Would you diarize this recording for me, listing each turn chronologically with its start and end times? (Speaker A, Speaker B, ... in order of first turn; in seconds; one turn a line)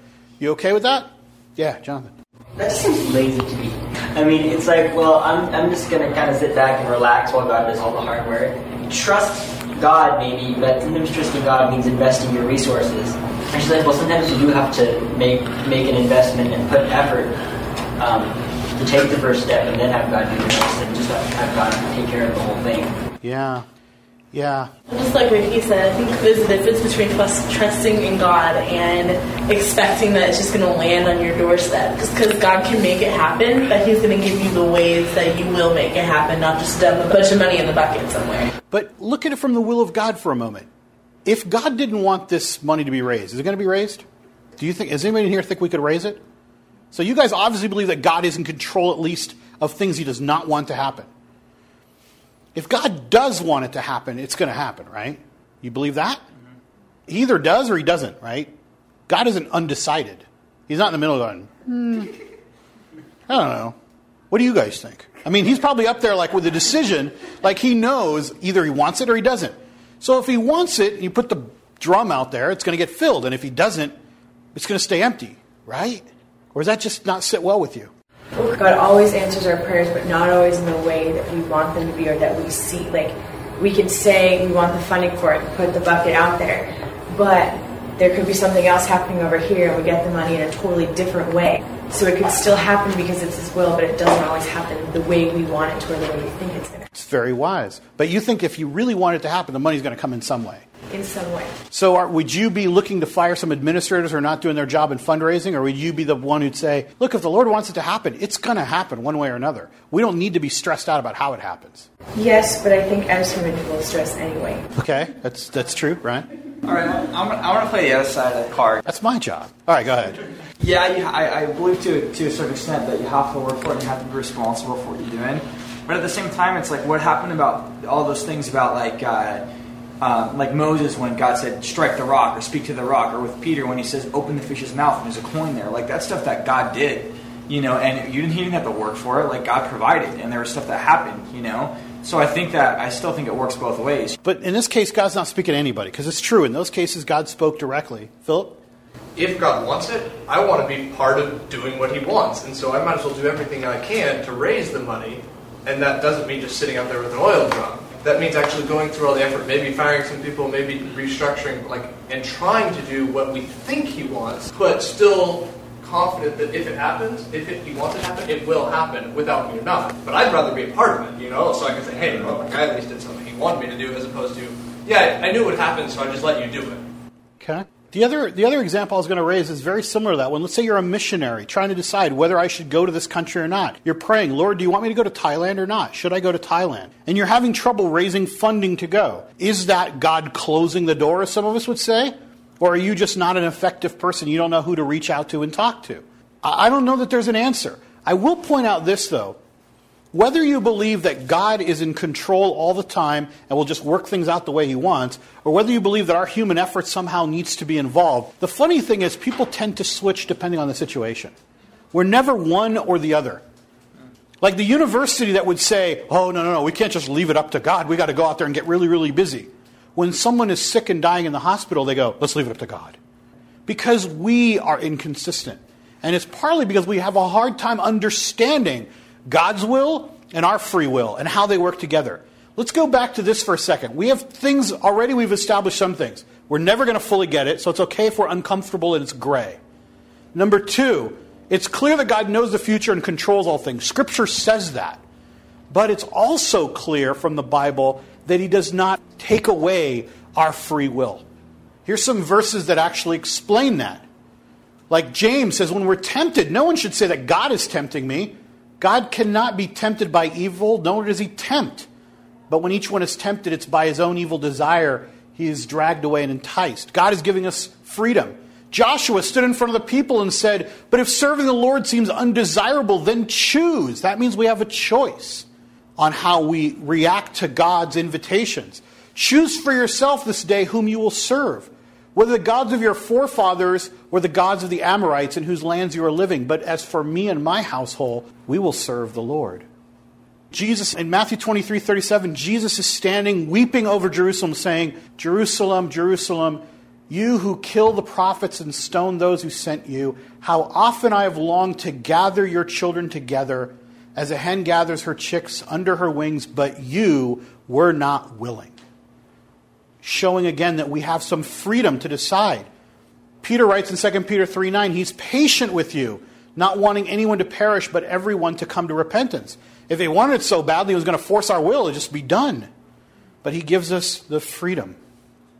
Speaker A: 0.4-2.1
Speaker B: 2.6-17.4
Speaker B: 18.0-22.9
Speaker A: 23.2-23.6
Speaker A: 24.3-24.7
Speaker C: 24.9-38.5
Speaker A: 38.7-40.7
Speaker A: 41.2-44.0
Speaker A: 44.6-46.2
Speaker A: 46.9-51.1
Speaker A: 52.5-56.2
Speaker A: 57.1-58.5
Speaker A: 59.1-62.1
Speaker A: 63.3-63.8
Speaker A: 64.3-73.9
Speaker A: 74.5-77.9
Speaker D: 78.3-96.9
Speaker A: 96.9-100.7
Speaker D: 100.9-101.5
Speaker A: 101.7-111.9
Speaker D: 112.1-114.7
Speaker A: 114.8-116.3
Speaker E: 116.6-118.8
Speaker A: 118.8-120.2
Speaker E: 120.6-129.4
Speaker E: 130.0-144.2
Speaker A: 144.2-148.6
Speaker F: 149.2-176.8
Speaker A: 177.4-199.4
Speaker A: 200.1-211.3
Speaker A: 211.9-213.4
Speaker A: 214.4-223.0
Speaker A: 223.7-239.6
Speaker A: 240.3-245.0
Speaker A: 245.7-251.2
Speaker A: 251.8-254.0
Speaker A: 254.9-261.9
Speaker A: 262.5-275.4
Speaker A: 276.0-289.6
Speaker A: 290.5-308.7
Speaker A: 310.0-312.7
Speaker A: 313.4-322.7
Speaker A: 323.4-325.0